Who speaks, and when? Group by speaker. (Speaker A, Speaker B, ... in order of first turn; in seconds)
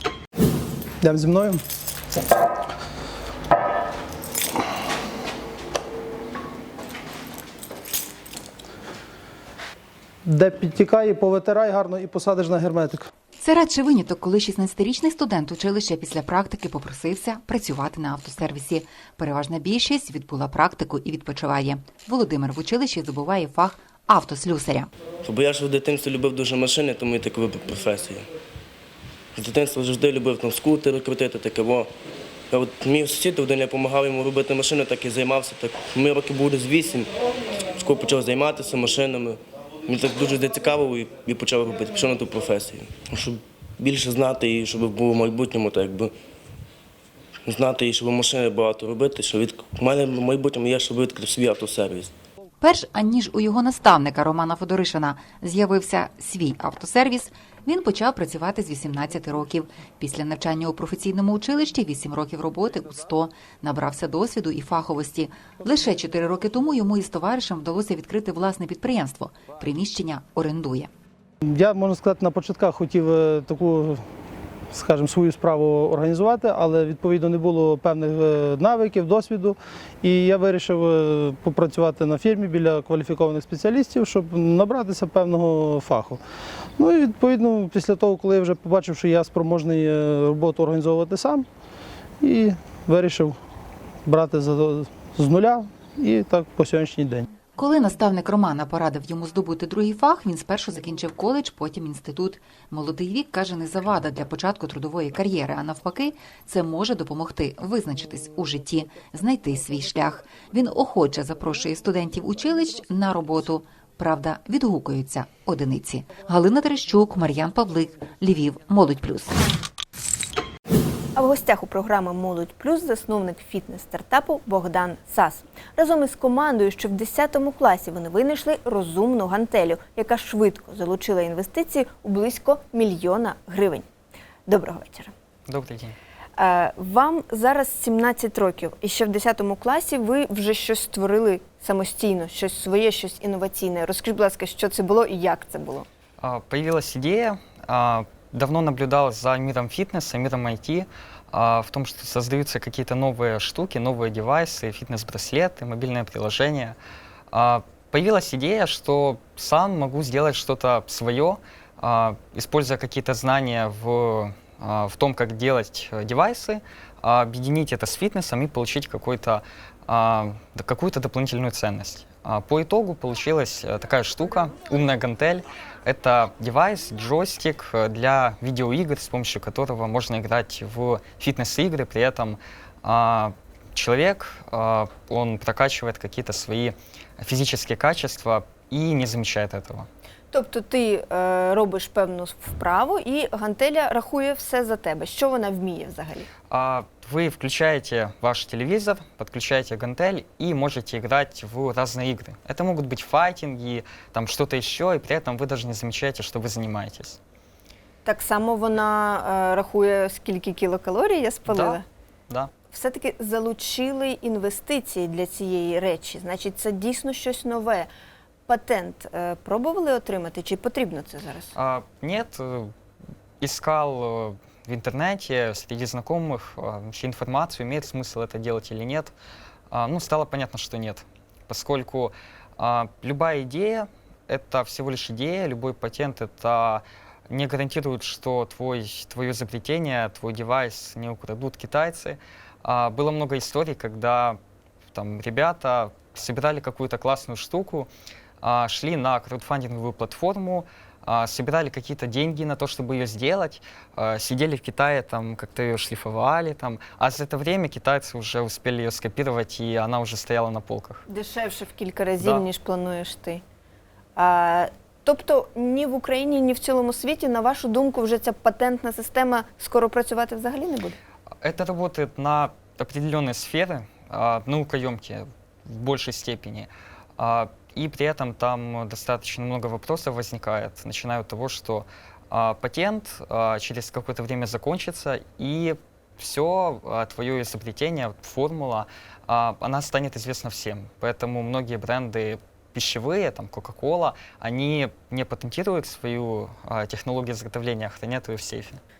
Speaker A: 1.0-1.6, 10.2-13.1, 71.4-74.0, 74.7-86.2, 86.8-91.5, 92.2-93.4, 94.0-97.2
Speaker B: 13.4-24.9, 52.6-70.9, 97.5-119.4
Speaker C: 25.2-28.2, 29.3-31.9, 32.5-37.2, 37.7-46.1, 47.5-52.1
Speaker D: 121.2-133.8, 134.5-135.1, 136.4-145.9, 190.3-196.3, 208.0-211.8, 212.7-217.9, 218.5-221.5, 261.1-263.4, 264.1-271.0
Speaker E: 135.5-135.9, 146.2-156.8, 157.3-189.8, 196.5-207.2, 211.5-211.8, 221.6-222.7, 223.4-229.1, 229.7-244.4, 244.9-247.9, 248.4-261.0, 271.4-298.8